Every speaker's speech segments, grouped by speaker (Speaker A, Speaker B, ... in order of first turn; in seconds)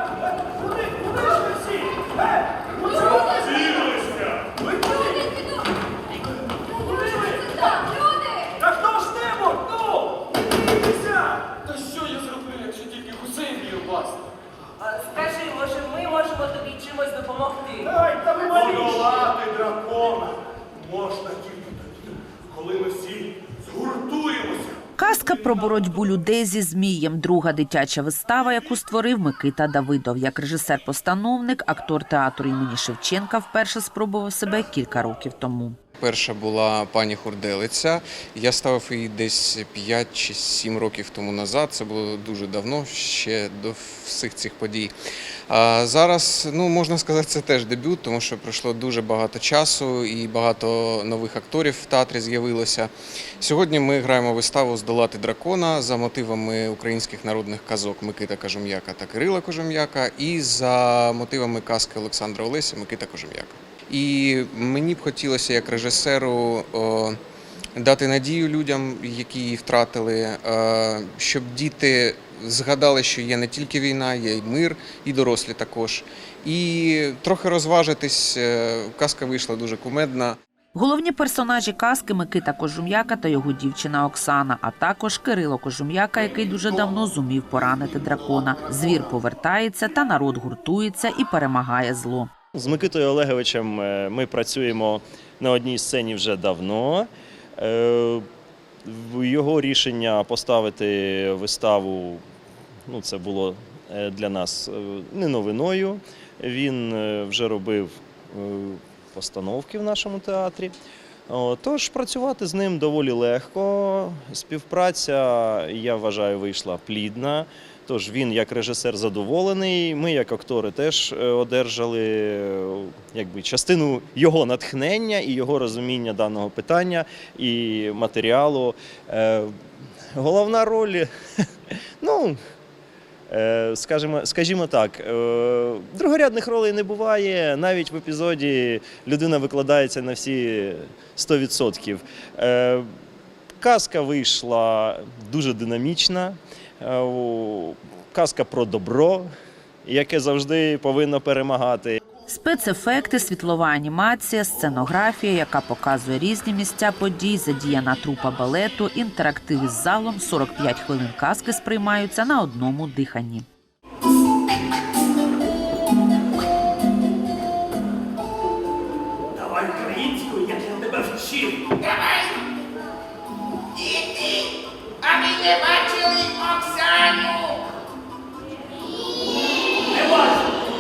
Speaker A: 0.4-5.3, 7.0-7.7, 8.7-10.2, 10.8-14.2, 18.0-18.4, 169.3-171.7, 179.9-180.5
Speaker B: 14.8-19.3
Speaker C: 25.0-35.8, 80.8-92.3, 152.3-163.5
Speaker D: 36.0-44.9, 45.5-67.2, 67.8-80.4
Speaker E: 92.5-98.2, 98.8-102.2, 102.9-110.7, 111.3-129.6, 130.1-131.1, 131.7-132.4, 133.3-142.9, 143.6-149.3, 149.8-152.0
Speaker F: 173.8-174.4, 175.0-177.6